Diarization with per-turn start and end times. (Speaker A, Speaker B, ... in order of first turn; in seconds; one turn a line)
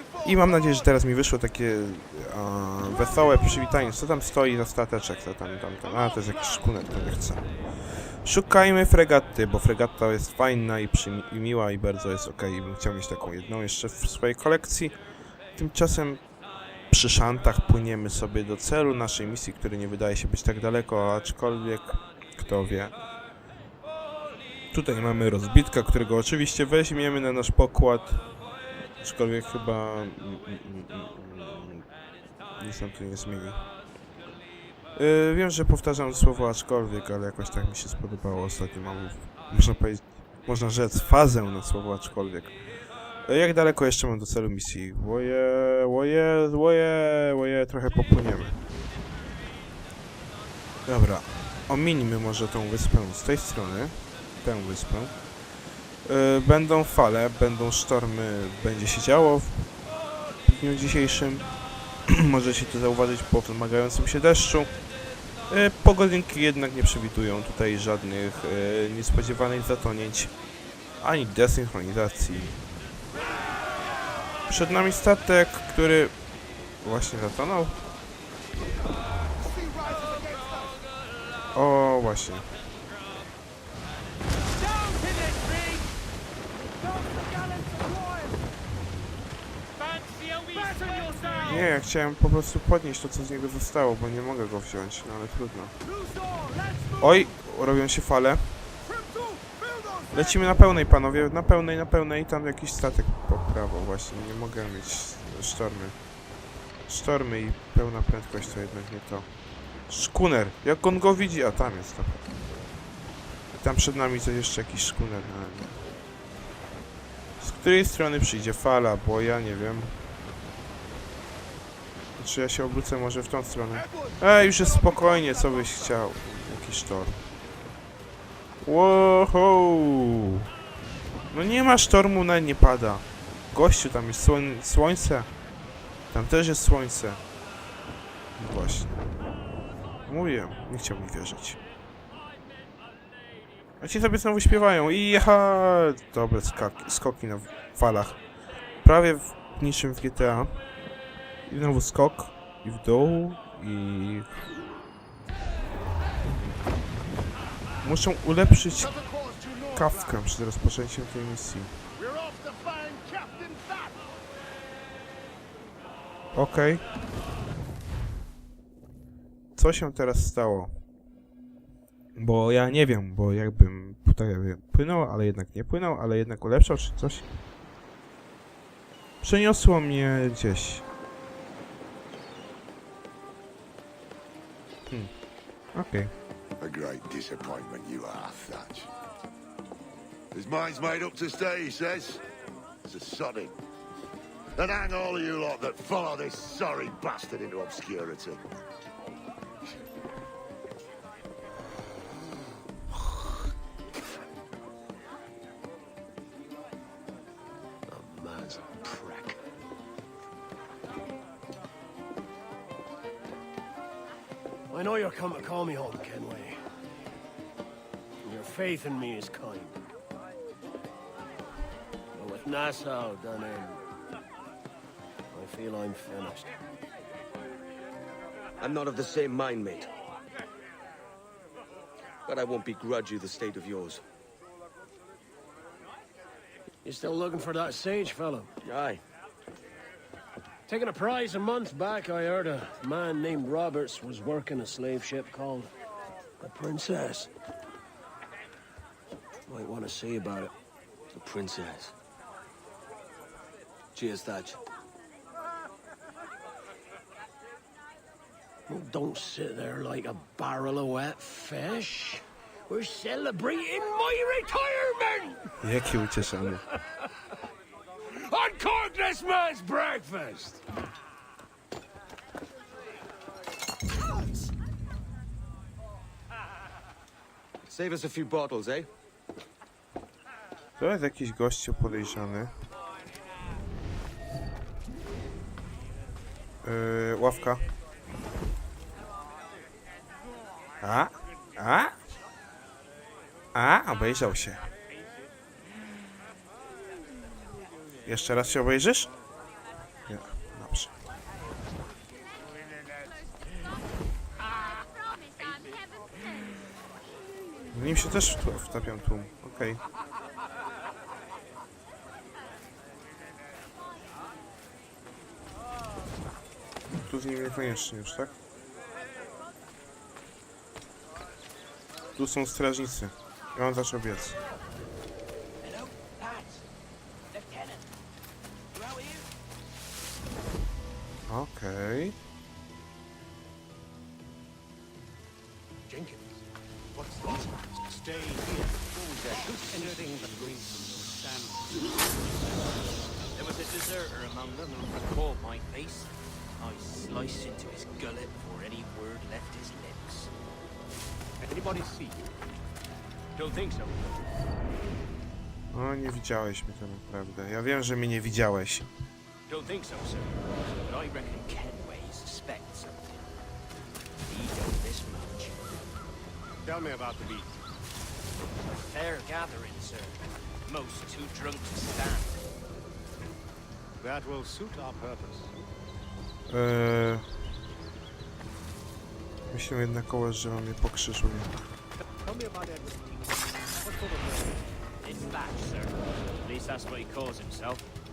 Speaker A: 0.2-7.5
Speaker A: 8.2-14.9
Speaker A: 15.5-16.2
Speaker A: 16.9-22.9
Speaker A: 24.7-28.2
Speaker A: 29.0-31.9
Speaker A: 32.6-33.6
Speaker A: 34.9-42.5
Speaker A: 43.2-48.6
Speaker A: 50.9-55.1
Speaker A: 56.0-59.7
Speaker A: 60.4-61.5
Speaker A: 62.1-64.7
Speaker A: 65.5-70.3
Speaker A: 71.0-72.6
Speaker A: 74.5-76.1
Speaker A: 76.8-77.8
Speaker A: 81.5-82.5
Speaker B: 84.8-85.8
Speaker A: 91.4-95.7
Speaker A: 97.0-98.5
Speaker A: 100.1-106.0
Speaker A: 106.9-109.3
Speaker A: 109.9-112.3
Speaker A: 113.6-115.8
Speaker A: 117.4-120.0
Speaker A: 122.2-127.2
Speaker A: 128.6-130.4
Speaker A: 131.3-135.3
Speaker A: 136.1-137.2
Speaker A: 138.4-139.0
Speaker A: 140.1-141.6
Speaker A: 143.8-148.2
Speaker A: 148.8-150.6
Speaker A: 151.5-154.4
Speaker A: 157.8-158.9
Speaker A: 159.7-161.8
Speaker C: 162.1-162.8
Speaker A: 166.3-166.8
Speaker A: 169.6-170.7
Speaker A: 172.2-177.3
Speaker A: 179.2-180.8
Speaker A: 185.7-186.1
Speaker C: 186.6-188.9
Speaker C: 190.3-192.2
Speaker C: 192.8-193.5
Speaker C: 194.6-198.4
Speaker D: 207.9-209.4
Speaker D: 214.7-216.6
Speaker D: 218.2-219.8
Speaker D: 222.1-223.8
Speaker D: 225.3-226.5
Speaker E: 228.6-229.9
Speaker E: 232.3-234.0
Speaker D: 236.8-238.5
Speaker E: 238.6-239.0
Speaker D: 240.7-245.7
Speaker D: 246.4-247.3
Speaker D: 249.5-250.5
Speaker D: 251.1-251.9
Speaker D: 253.9-254.6
Speaker D: 258.7-265.5
Speaker A: 265.6-266.6
Speaker D: 268.1-270.6
Speaker E: 277.6-278.9
Speaker A: 280.8-282.5
Speaker A: 286.6-287.6
Speaker A: 290.8-292.0
Speaker A: 293.5-294.7
Speaker A: 298.1-299.1
Speaker A: 300.1-300.9
Speaker A: 307.7-309.8
Speaker A: 317.0-318.4
Speaker A: 322.1-324.4
Speaker B: 325.6-326.6
Speaker B: 327.3-327.9
Speaker B: 328.7-329.3
Speaker A: 331.3-332.1
Speaker F: 335.9-341.7
Speaker B: 343.3-350.3
Speaker F: 351.4-352.4
Speaker B: 353.4-354.1
Speaker A: 355.7-358.9
Speaker B: 359.5-363.3
Speaker B: 364.3-365.6
Speaker F: 366.6-367.5
Speaker B: 368.9-372.4
Speaker F: 374.0-375.5
Speaker A: 376.5-377.3
Speaker A: 379.5-381.5
Speaker F: 382.2-384.6
Speaker B: 385.0-387.8